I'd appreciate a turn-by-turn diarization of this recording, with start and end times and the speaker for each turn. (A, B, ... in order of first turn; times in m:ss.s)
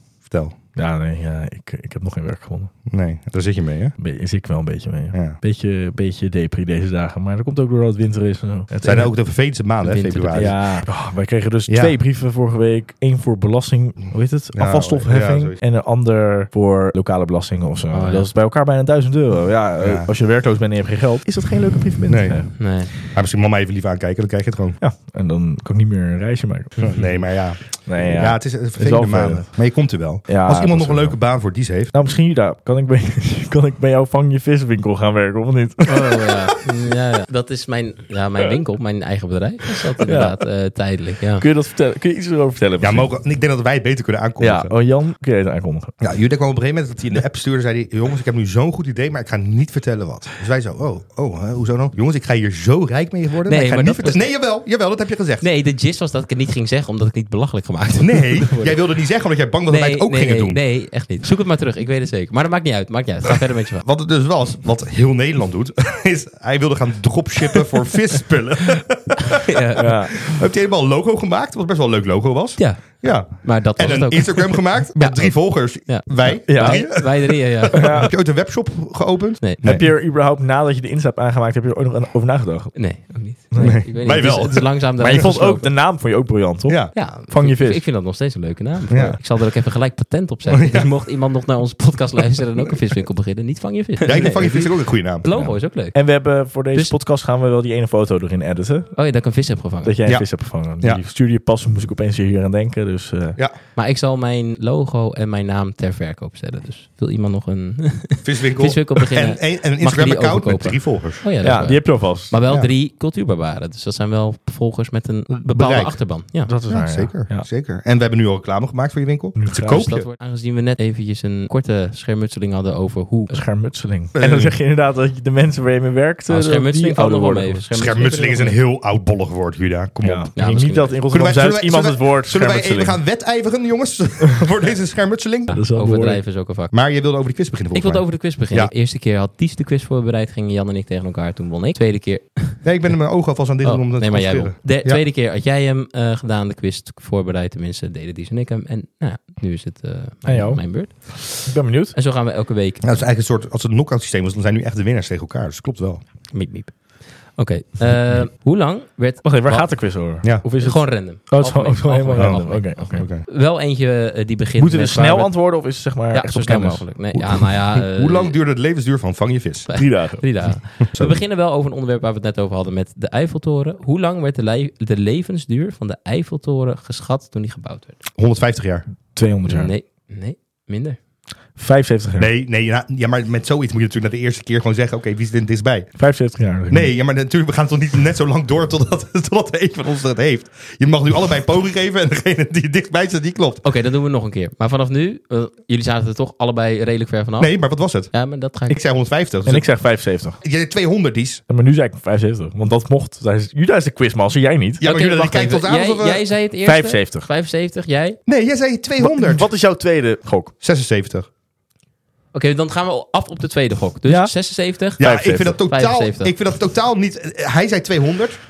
0:00.2-0:00.6 A
0:00.8-0:02.7 B
0:02.9-0:04.0 A
0:04.0-0:09.1 B
0:05.1-0:05.4 A
0:08.8-0:10.6 A
0:09.8-0:10.6 C
0:10.3-0:22.5 B
0:11.7-0:12.0 A
0:14.5-0:15.6 A
0:17.9-0:18.3 C
0:19.8-0:20.1 A
0:22.1-0:24.8 A
0:22.6-0:22.9 C
0:24.8-0:27.2 B
0:26.8-0:31.9 A
0:27.8-0:36.2 B
0:35.8-0:41.4 C
0:40.0-0:40.4 B
0:41.4-0:43.1 B
0:42.8-0:44.8 A
0:44.4-0:46.0 B
0:46.0-0:55.4 A
0:53.4-0:54.3 C
0:55.4-0:58.8 C
0:58.0-1:00.6 A
0:59.7-1:03.8 C
1:03.8-1:19.9 A
1:09.3-1:09.9 C
1:09.8-1:10.2 B
1:12.6-1:18.0 C
1:16.5-1:18.1 B
1:19.6-1:24.3 B
1:22.7-1:25.7 C
1:23.6-1:25.3 A
1:25.0-1:27.9 B
1:26.7-1:27.0 A
1:26.9-1:37.0 C
1:28.9-1:29.2 A
1:30.5-1:30.9 A
1:34.0-1:35.3 A
1:35.3-1:38.9 B
1:38.9-1:39.9 C
1:39.8-1:43.4 B
1:40.0-1:41.0 A
1:43.7-1:56.5 C
1:48.2-1:51.3 A
1:51.4-1:52.4 B
1:55.3-1:56.0 A
1:56.4-1:57.4 B
1:56.7-2:00.1 A
1:59.4-1:59.8 B
1:59.5-2:03.4 C
2:03.3-2:07.6 B
2:04.1-2:04.5 A
2:06.3-2:08.6 C
2:07.7-2:10.3 A
2:10.0-2:13.0 B
2:10.4-2:11.0 C
2:11.1-2:15.5 A
2:15.5-2:16.7 C
2:15.5-2:16.2 B
2:16.7-2:18.7 A
2:17.7-2:23.0 C
2:22.6-2:25.0 A
2:23.6-2:32.8 C
2:30.2-2:32.0 B
2:32.8-2:36.0 A
2:36.3-2:48.4 C
2:39.2-2:43.0 B
2:42.2-2:43.2 A
2:44.6-2:47.5 B
2:47.7-2:50.1 A
2:49.7-2:58.0 C
2:49.7-2:50.7 B
2:50.9-2:51.2 A
2:58.2-2:58.8 A
2:59.1-2:59.7 B
2:59.4-3:01.0 C
3:01.6-3:02.3 B
3:02.2-3:06.0 A
3:06.0-3:06.9 B
3:06.7-3:13.6 A
3:13.6-3:18.8 C
3:17.4-3:18.1 A
3:18.7-3:19.8 A
3:19.4-3:20.4 B
3:20.4-3:21.4 A
3:21.5-3:24.8 B
3:24.8-3:26.2 A
3:24.8-3:28.2 C
3:26.6-3:27.3 B
3:28.2-3:29.5 A
3:29.0-3:30.5 B
3:30.6-3:31.3 A
3:32.3-3:36.3 C
3:34.1-3:34.3 B
3:34.9-3:35.6 B
3:35.0-3:38.4 A